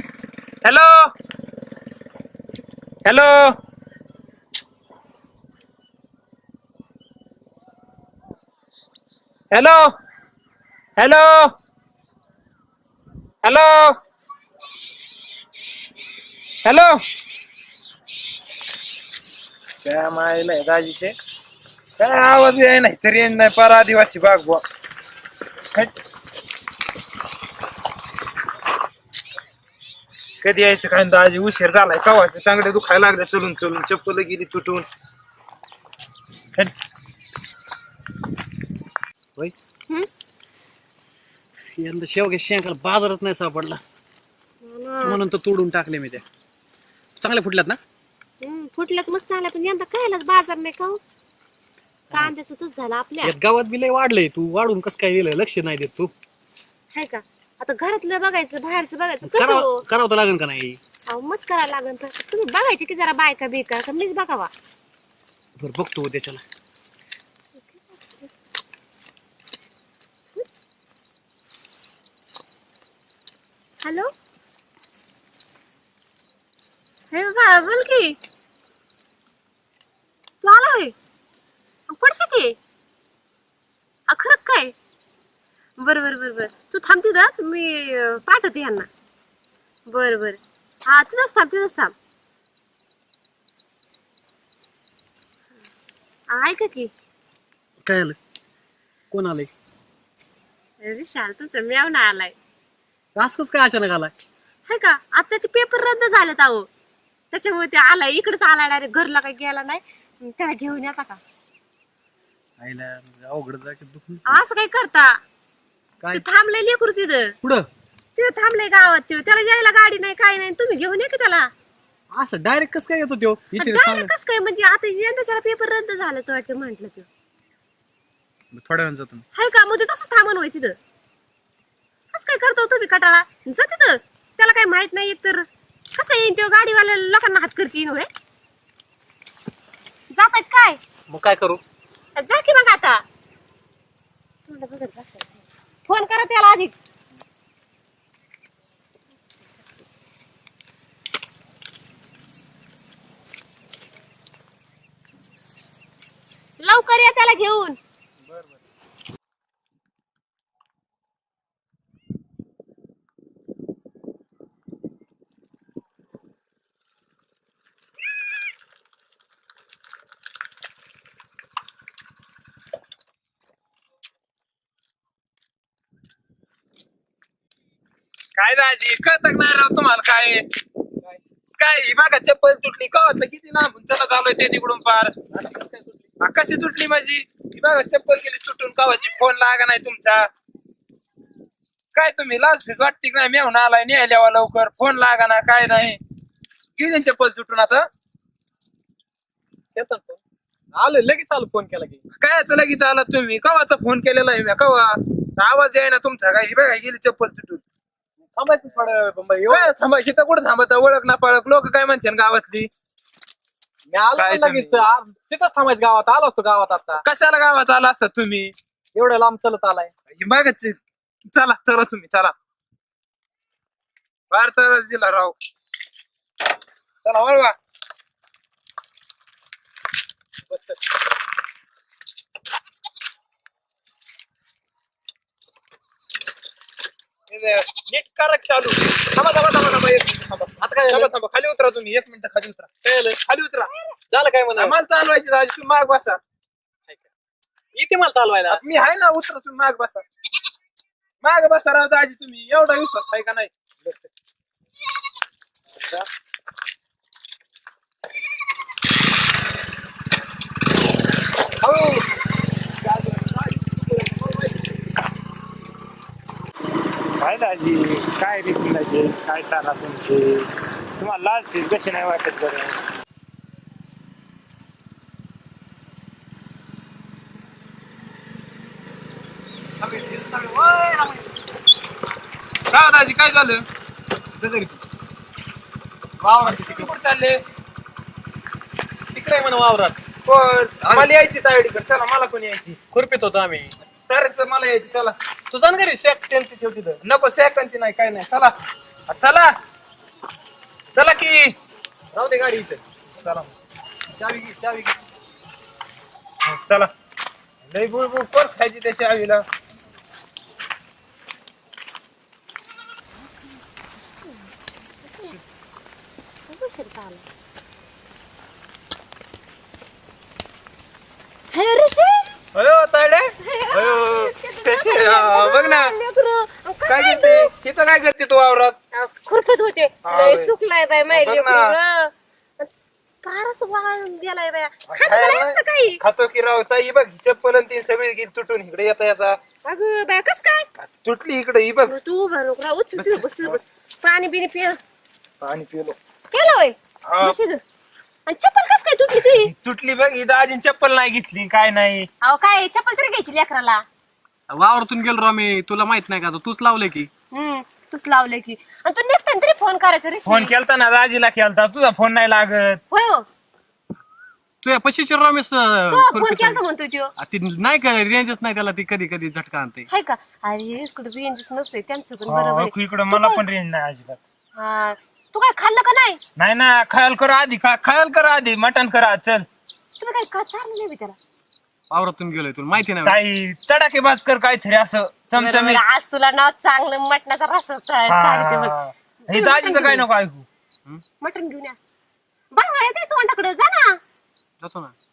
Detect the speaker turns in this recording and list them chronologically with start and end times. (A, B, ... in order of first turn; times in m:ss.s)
0:00.6-0:01.1 A
0:03.0-0:03.6 A
0:09.5-0:09.9 A
0:11.0-0:11.5 A
0:13.4-0:14.0 A
0:16.6-0:17.0 A
0:19.8-0:21.1 A
0:22.0-0:24.6 A
0:30.4-0:34.8 A
0:41.8-0:43.8 B
0:44.6-0:45.2 C
0:45.0-0:46.2 B
0:47.2-0:47.8 B
0:48.4-0:51.0 C
0:52.1-0:53.3 C
0:53.2-0:56.1 B
0:56.9-0:59.8 C
0:59.2-1:00.8 B
1:01.1-1:04.5 C
1:05.6-1:06.4 B
1:07.6-1:08.3 C
1:13.8-1:14.1 C
1:17.1-1:18.2 C
1:20.4-1:20.9 C
1:21.9-1:22.6 C
1:24.1-1:24.7 C
1:25.8-1:28.9 C
1:29.8-1:31.9 C
1:36.3-1:36.9 C
1:37.8-1:38.2 B
1:39.1-1:39.5 B
1:40.8-1:42.4 C
1:43.1-1:44.1 B
1:44.7-1:46.7 C
1:47.3-1:51.2 C
1:52.6-1:54.4 B
1:54.2-1:55.2 C
1:56.1-1:57.4 C
1:58.2-2:01.5 C
2:02.1-2:04.1 B
2:03.6-2:07.1 C
2:08.5-2:09.2 B
2:09.3-2:10.8 C
2:12.1-2:18.1 C
2:20.1-2:20.8 C
2:21.1-2:21.6 B
2:22.2-2:23.0 C
2:24.5-2:26.7 C
2:36.6-2:37.8 C
2:58.4-3:00.4 A
3:01.6-3:05.2 A
3:05.3-3:06.0 B
3:06.2-3:10.3 A
3:11.9-3:16.0 A
3:16.8-3:17.9 A
3:19.7-3:20.2 B
3:20.7-3:22.0 B
3:22.1-3:27.6 A
3:28.3-3:29.7 B
3:29.5-3:32.7 A
3:33.9-3:37.0 B
3:34.2-3:34.8 A
3:37.0-3:38.5 A
3:38.9-3:39.9 B
3:40.1-3:42.3 A
3:44.3-3:45.4 A
3:47.0-3:47.6 A
3:57.3-4:02.7 A
4:00.6-4:01.1 B
4:02.8-4:03.2 B
4:03.3-4:03.7 A
4:04.1-4:04.8 B
4:04.6-4:06.2 A
4:07.7-4:08.6 B
4:08.5-4:10.0 A
4:11.2-4:14.1 A
4:23.0-4:24.4 B
4:27.2-4:32.8 A
4:39.8-4:41.3 B
4:42.7-4:43.6 A
4:44.4-4:44.8 B
4:46.2-4:46.9 B
4:46.4-4:47.4 A
4:49.1-4:50.0 B
4:50.2-4:52.8 A
4:50.8-4:51.1 B
4:52.9-4:53.7 B
4:54.1-4:55.1 A
4:55.5-4:57.0 B
4:57.0-4:58.5 A
4:59.1-4:59.5 A
5:00.9-5:01.5 A
5:02.1-5:02.8 B
5:03.2-5:03.5 A
5:04.1-5:05.0 B
5:06.4-5:06.9 A
5:07.6-5:09.4 A
5:14.2-5:15.4 C
5:16.5-5:17.2 C
5:21.5-5:22.3 C
5:22.5-5:26.0 A
5:23.4-5:27.5 C
5:26.9-5:28.8 A
5:28.9-5:32.7 C
5:30.0-5:30.5 A
5:31.1-5:31.7 A
5:33.2-5:36.0 C
5:34.9-5:39.4 A
5:39.6-5:40.7 C
5:40.8-5:41.9 A
5:41.8-5:44.8 C
5:43.0-5:43.6 A
5:45.4-5:46.0 A
5:46.3-5:47.6 C
5:47.0-5:47.3 A
5:48.3-5:49.5 C
5:49.4-5:52.1 A
5:52.2-5:53.8 C
5:54.5-5:57.1 B
5:57.3-6:00.5 C
6:00.2-6:02.8 A
6:02.9-6:03.3 C
6:04.6-6:06.6 B
6:05.9-6:07.1 C
6:07.2-6:09.9 B
6:09.9-6:13.4 C
6:12.3-6:14.2 A
6:14.5-6:16.2 C
6:16.4-6:19.5 A
6:20.0-6:21.2 C
6:21.9-6:23.2 B
6:23.0-6:25.8 A
6:25.3-6:30.0 C
6:28.1-6:30.5 A
6:31.2-6:31.8 C
6:32.5-6:34.0 C
6:34.6-6:34.9 B